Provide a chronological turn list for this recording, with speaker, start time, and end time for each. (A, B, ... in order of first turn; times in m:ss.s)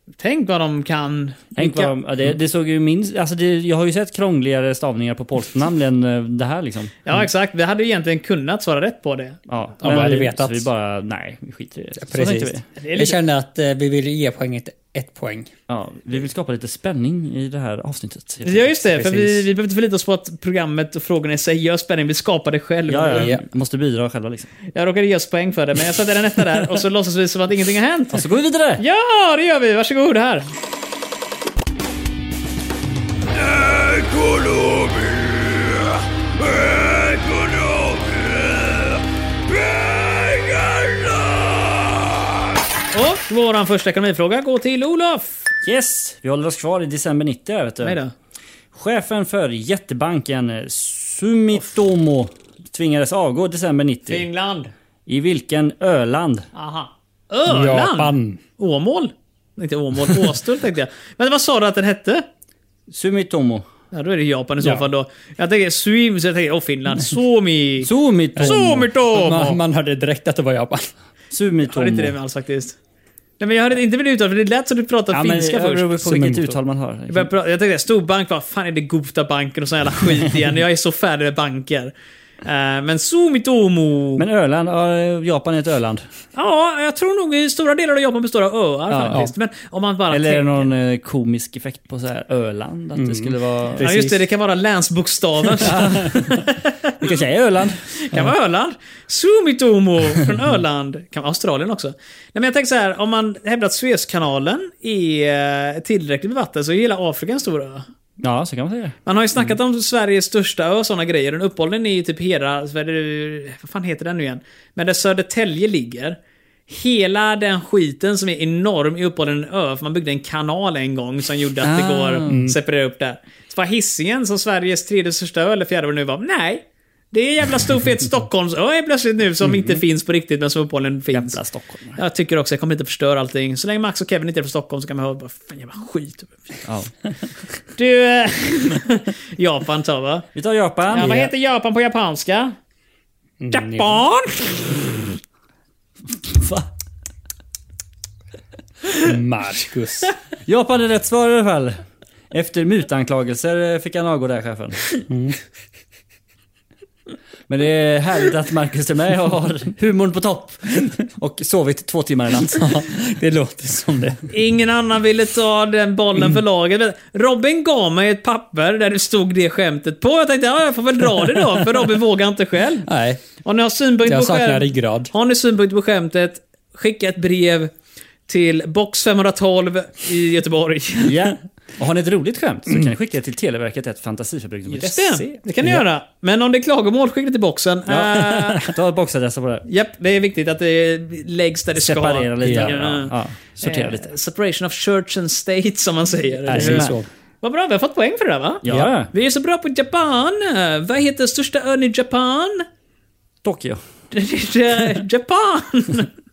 0:00.2-0:01.9 A
0:01.6-0:06.9 B
0:07.0-0:09.4 A
0:09.5-0:12.6 B
0:09.8-0:10.7 C
0:12.0-0:15.5 C
0:12.8-0:13.2 A
0:15.7-0:19.4 B
0:18.4-0:23.3 A
0:22.9-0:24.5 B
0:23.1-0:23.4 C
0:24.7-0:28.2 A
0:28.1-0:28.8 B
0:28.8-0:30.5 A
0:33.4-0:35.6 A
0:36.6-0:38.2 A
0:40.0-0:40.8 A
0:42.9-0:45.5 A
0:45.6-0:48.0 B
0:47.8-0:48.1 A
0:48.7-0:54.2 B
0:54.1-0:54.7 A
0:55.1-0:56.5 B
0:56.5-1:02.2 A
0:57.5-0:58.4 C
1:02.9-1:03.6 B
1:03.9-1:09.6 A
1:07.8-1:08.8 B
1:08.4-1:10.9 C
1:11.3-1:12.2 B
1:11.6-1:12.8 A
1:13.4-1:16.0 A
1:15.1-1:17.3 B
1:16.0-1:16.6 C
1:17.1-1:24.2 A
1:24.2-1:26.0 B
1:26.4-1:30.7 A
1:28.9-1:29.2 B
1:30.1-1:33.9 B
1:33.0-1:34.2 C
1:33.8-1:37.1 A
1:35.6-1:36.4 B
1:37.0-1:37.8 B
1:37.9-1:47.8 A
1:48.2-1:49.0 B
1:49.0-2:11.4 A
2:01.6-2:02.4 B
2:02.3-2:02.6 C
2:11.1-2:12.0 B
2:12.0-2:16.4 A
2:16.6-2:17.1 B
2:17.8-2:20.2 A
2:20.3-2:21.1 B
2:20.9-2:22.5 A
2:21.0-2:21.3 C
2:23.4-2:24.0 C
2:23.5-2:25.0 A
2:26.3-2:26.7 B
2:29.0-2:30.1 C
2:30.4-2:34.9 B
2:35.1-2:35.4 C
2:37.5-2:42.7 B
2:42.4-2:44.3 C
2:44.3-2:52.9 A
2:52.8-2:53.2 C
2:53.4-2:57.7 A
2:54.0-2:55.1 C
2:58.3-3:01.3 A
3:01.0-3:05.3 B
3:04.7-3:08.7 A
3:07.9-3:09.6 B
3:09.7-3:22.6 A
3:11.8-3:14.0 B
3:12.4-3:12.7 C
3:16.5-3:17.0 C
3:16.5-3:16.9 B
3:18.6-3:19.1 B
3:18.6-3:18.9 C
3:23.4-3:23.8 B
3:24.1-3:26.1 A